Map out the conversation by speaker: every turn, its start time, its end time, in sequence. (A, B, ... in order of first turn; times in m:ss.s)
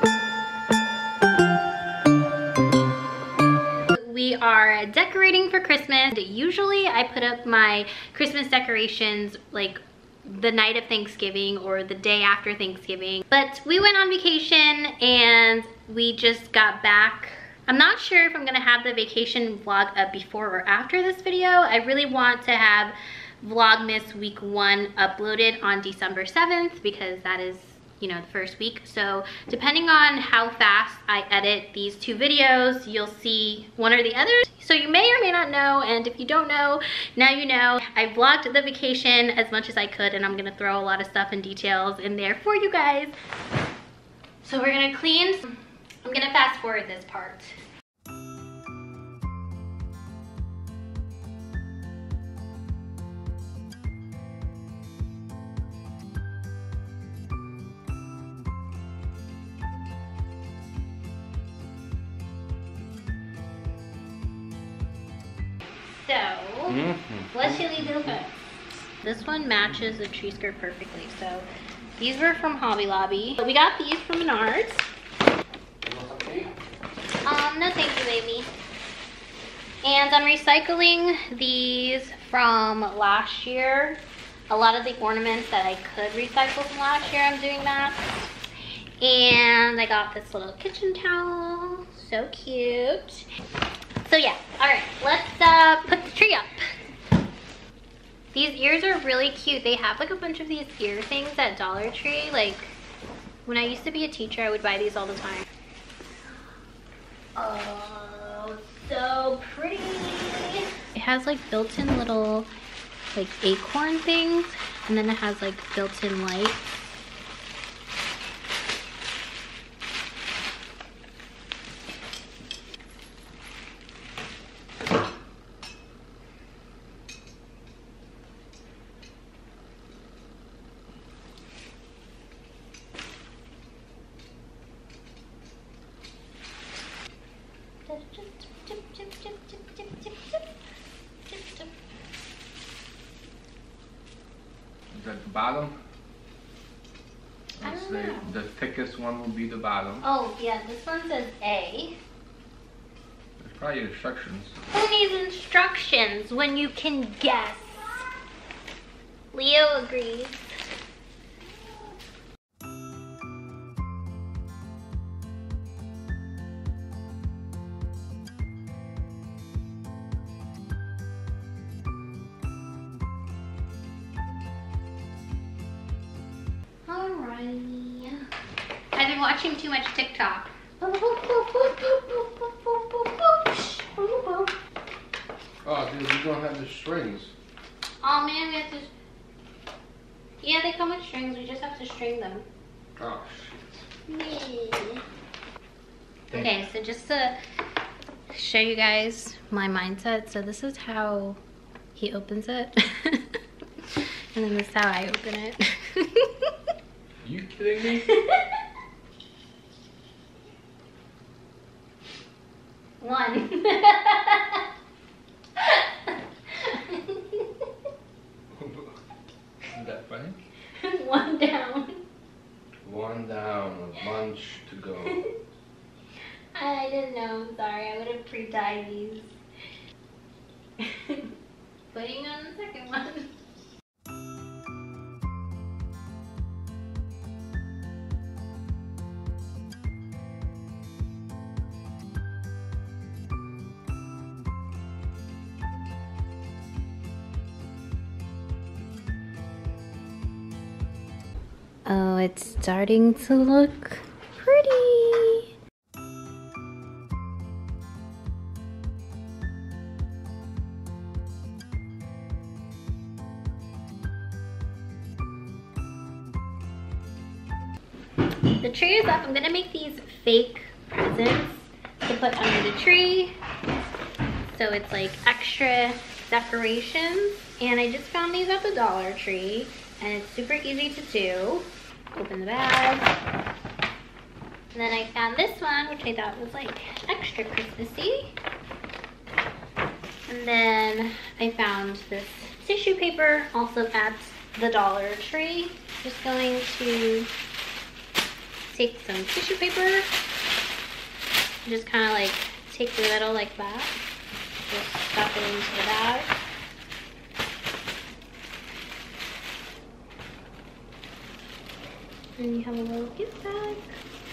0:03.9-0:43.1 A
0:44.4-0:47.6 A
1:05.8-1:14.9 A
1:06.7-1:08.1 B
1:15.8-1:16.5 B
1:17.2-1:18.5 A
1:19.8-1:28.3 A
1:29.0-1:33.3 A
1:34.0-1:36.6 A
1:38.3-1:42.8 A
1:43.4-1:45.5 A
1:47.4-1:52.5 A
1:53.1-1:56.7 A
2:17.9-2:20.5 A
2:21.3-2:21.7 A
2:24.9-2:25.8 B
2:27.6-2:30.1 B
2:27.6-2:28.4 A
2:30.0-2:32.0 A
2:33.4-2:34.6 B
2:34.7-2:38.1 A
2:39.3-2:40.5 A
2:56.9-2:58.3 A
2:58.9-3:04.5 A
3:05.7-3:07.2 C
3:05.7-3:07.3 B
3:08.0-3:08.9 A
3:10.4-3:12.4 A
3:13.0-3:13.8 B
3:14.1-3:15.0 A
3:16.3-3:17.4 A
3:18.3-3:21.4 A
3:22.0-3:23.4 A
3:23.9-3:26.5 A
3:27.2-3:28.1 B
3:28.1-3:28.6 A
3:33.0-3:34.6 A
3:35.6-3:37.6 A
3:38.6-3:38.9 B
3:39.7-3:40.4 B
3:40.8-3:41.9 A
3:42.8-3:45.1 C
3:43.1-3:45.1 B
3:46.5-3:49.4 A
3:50.8-3:51.3 A
3:51.9-3:53.3 A
4:11.9-4:15.5 A
4:28.6-4:33.4 A
4:34.5-4:43.1 A
4:44.7-4:48.4 A
4:50.3-4:57.3 A
4:58.7-5:00.1 A
5:01.6-5:04.0 A
5:04.7-5:06.4 A
5:12.4-5:13.9 A